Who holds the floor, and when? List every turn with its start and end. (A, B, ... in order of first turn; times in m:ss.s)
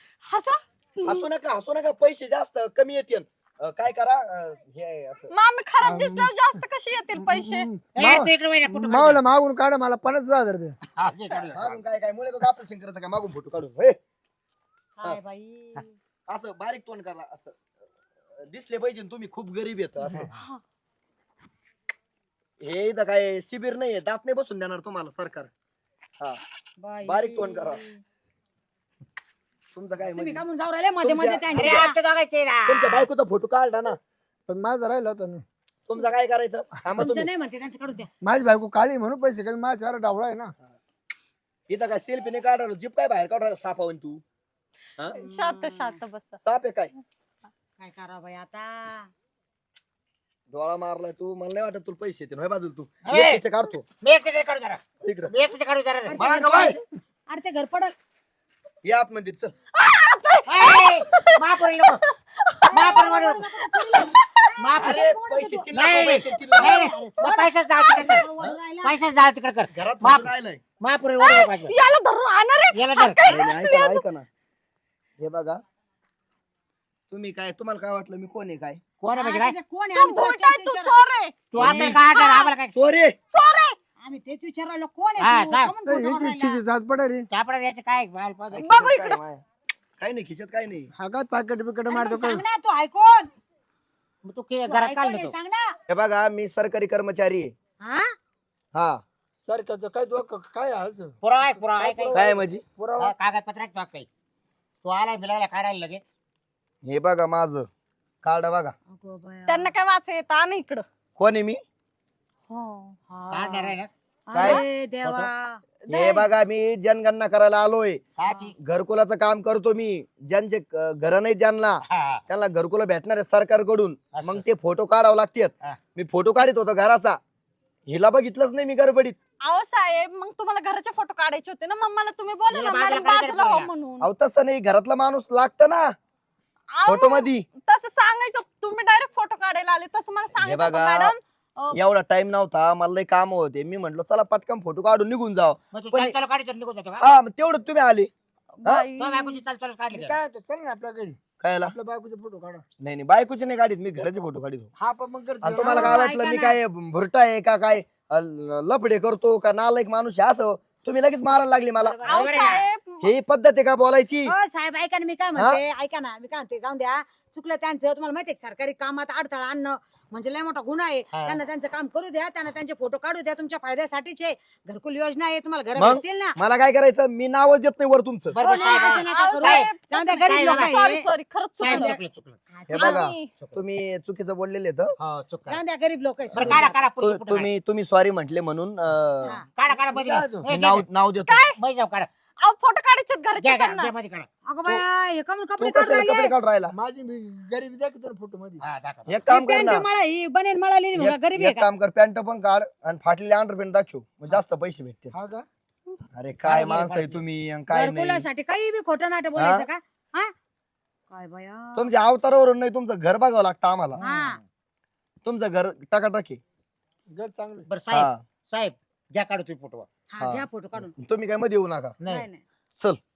0:00.2-0:01.3 A
0:01.0-0:05.3 B
0:05.3-0:07.7 A
0:05.8-0:06.6 C
0:07.1-0:10.8 C
0:08.0-0:09.2 D
0:11.0-0:11.8 D
0:11.5-0:14.0 B
0:15.0-0:15.9 E
0:16.3-0:17.6 B
0:18.4-0:20.3 B
0:20.3-0:20.6 A
0:22.6-0:25.5 B
0:26.8-0:28.0 E
0:27.0-0:27.8 B
0:29.7-0:30.4 B
0:30.1-0:32.0 E
0:31.0-0:31.9 B
0:31.5-0:33.1 D
0:32.6-0:34.0 B
0:34.5-0:35.4 C
0:35.9-0:37.3 B
0:37.0-0:38.1 E
0:38.2-0:40.5 C
0:41.7-0:44.2 B
0:45.2-0:46.0 E
0:45.2-0:46.4 A
0:46.4-0:46.9 B
0:47.8-0:49.1 E
0:50.5-0:53.8 B
0:53.1-0:53.4 D
0:54.0-0:56.2 D
0:55.0-0:55.3 B
0:56.0-0:57.9 E
0:56.2-0:56.8 B
0:58.8-0:59.5 B
0:59.7-1:03.0 A
1:00.5-1:02.0 D
1:02.6-1:09.0 E
1:02.7-1:03.4 D
1:03.7-1:04.4 A
1:04.6-1:05.0 D
1:04.8-1:06.9 B
1:05.7-1:08.2 D
1:08.8-1:10.3 D
1:09.7-1:10.6 B
1:10.8-1:11.7 D
1:11.2-1:14.0 A
1:12.7-1:13.2 D
1:13.3-1:14.3 B
1:15.2-1:15.6 B
1:17.1-1:18.8 B
1:19.0-1:19.5 D
1:19.1-1:21.0 E
1:19.9-1:22.5 A
1:21.5-1:22.0 B
1:21.6-1:22.7 D
1:22.7-1:23.2 B
1:23.3-1:23.8 A
1:24.0-1:26.6 E
1:25.2-1:25.7 D
1:25.8-1:27.3 C
1:27.3-1:28.7 D
1:28.5-1:29.4 B
1:28.6-1:29.2 A
1:30.0-1:30.9 B
1:31.0-1:32.4 C
1:31.9-1:33.3 E
1:34.2-1:35.3 D
1:34.6-1:35.7 E
1:35.9-1:37.5 B
1:37.8-1:38.1 E
1:38.7-1:39.0 B
1:39.5-1:43.1 C
1:41.2-1:42.2 D
1:42.1-1:42.6 B
1:43.0-1:44.1 D
1:44.8-1:46.0 D
1:46.8-1:47.7 B
1:48.2-1:48.7 B
1:48.9-1:49.7 E
1:49.5-1:50.8 A
1:51.2-1:51.6 B
1:52.5-1:53.0 A
1:53.3-1:53.9 D
1:53.5-1:53.7 C
1:54.3-1:55.6 E
1:54.3-1:54.6 B
1:55.0-1:55.3 D
1:55.9-1:56.3 A
1:55.9-2:07.2 B
1:58.2-1:58.5 D
2:01.9-2:02.2 D
2:04.1-2:04.4 D
2:07.9-2:09.2 B
2:09.4-2:14.1 A
2:12.5-2:13.7 D
2:14.0-2:15.9 B
2:16.7-2:21.8 A
2:16.8-2:17.5 B
2:20.3-2:21.1 B
2:21.7-2:26.2 B
2:25.7-2:27.1 D
2:27.0-2:28.1 B
2:28.6-2:29.4 A
2:29.0-2:30.2 D
2:29.9-2:32.6 C
2:31.4-2:31.7 B
2:32.8-2:34.7 B
2:34.8-2:36.0 C
2:35.4-2:42.1 B
2:35.6-2:36.6 E
2:41.9-2:42.6 D
2:42.0-2:43.1 A
2:42.1-2:42.6 E
2:43.0-2:44.3 B
2:44.2-2:56.4 E
2:45.4-2:45.6 B
2:51.1-2:51.4 D
2:55.8-2:58.4 B
2:58.3-3:00.7 D
2:58.4-3:01.1 E
2:58.6-3:00.0 A
3:00.6-3:02.0 A
3:01.6-3:02.4 D
3:01.6-3:02.0 E
3:02.5-3:03.1 E
3:02.7-3:04.9 B
3:02.7-3:03.3 A
3:05.0-3:05.6 D
3:05.5-3:06.8 E
3:06.3-3:09.4 B
3:06.3-3:07.5 D
3:09.5-3:10.8 D
3:09.7-3:10.4 C
3:10.4-3:11.4 B
3:11.3-3:11.5 A
3:11.6-3:12.1 D
3:12.4-3:13.9 A
3:13.4-3:14.3 D
3:14.5-3:16.3 E
3:15.6-3:16.7 B
3:16.7-3:18.6 C
3:18.6-3:19.1 D
3:19.1-3:19.9 B
3:19.3-3:21.7 E
3:20.9-3:25.1 B
3:25.1-3:25.4 C
3:26.1-3:28.2 B
3:26.5-3:27.2 D
3:27.7-3:30.3 E
3:29.4-3:29.7 B
3:31.1-3:31.9 E
3:31.7-3:34.0 B
3:34.0-3:34.4 D
3:34.0-3:34.4 E
3:35.2-3:36.4 B
3:37.1-3:37.7 C
3:37.6-3:39.9 D
3:37.9-3:38.2 B
3:40.1-3:40.9 E
3:40.2-3:42.0 B
3:42.0-3:42.4 E